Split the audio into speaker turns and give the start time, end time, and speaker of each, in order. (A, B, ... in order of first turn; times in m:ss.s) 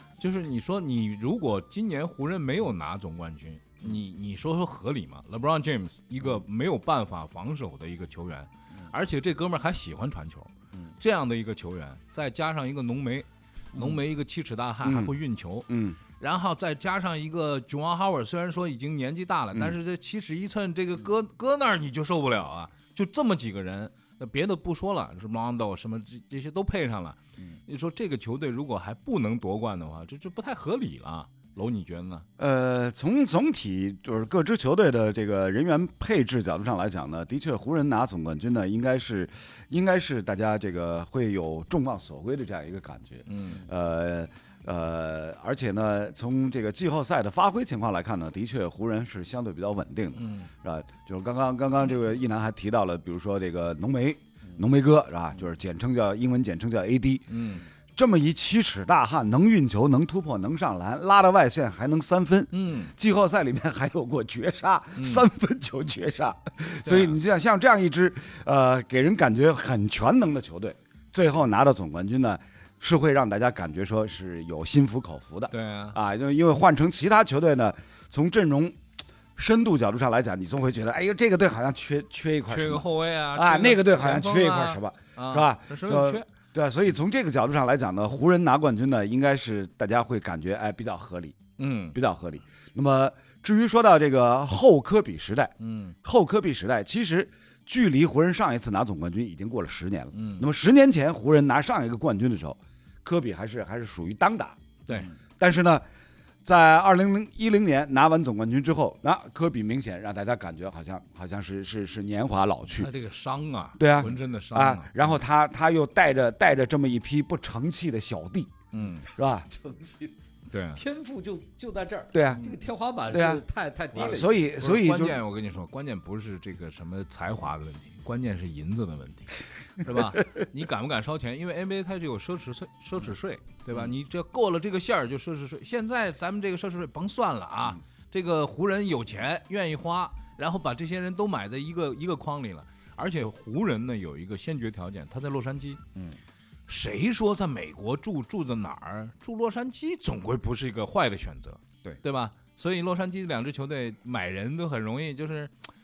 0:00.2-0:32.2 A
0:13.7-0:14.0 B
0:14.8-0:15.1 C
0:15.7-0:16.0 C
0:32.4-1:18.8 C
0:43.3-0:43.6 A
0:50.2-0:50.5 A
0:57.3-0:57.6 A
1:02.5-1:02.9 A
1:05.0-1:05.2 A
1:06.8-1:07.2 A
1:15.5-1:16.0 A
1:19.4-1:31.4 C
1:22.5-1:26.3 A
1:31.6-1:32.0 A
1:31.9-1:44.6 C
1:35.6-1:36.0 A
1:40.1-1:40.4 A
1:45.4-1:45.8 C
1:46.4-1:52.9 C
1:52.7-1:55.2 A
1:53.8-1:58.6 C
1:58.7-1:59.1 A
1:58.8-2:00.2 B
1:59.2-1:59.5 C
2:00.5-2:00.8 A
2:00.7-2:04.5 B
2:02.1-2:02.5 C
2:03.1-2:03.4 C
2:03.9-2:05.2 C
2:04.6-2:25.8 A
2:26.7-2:35.5 A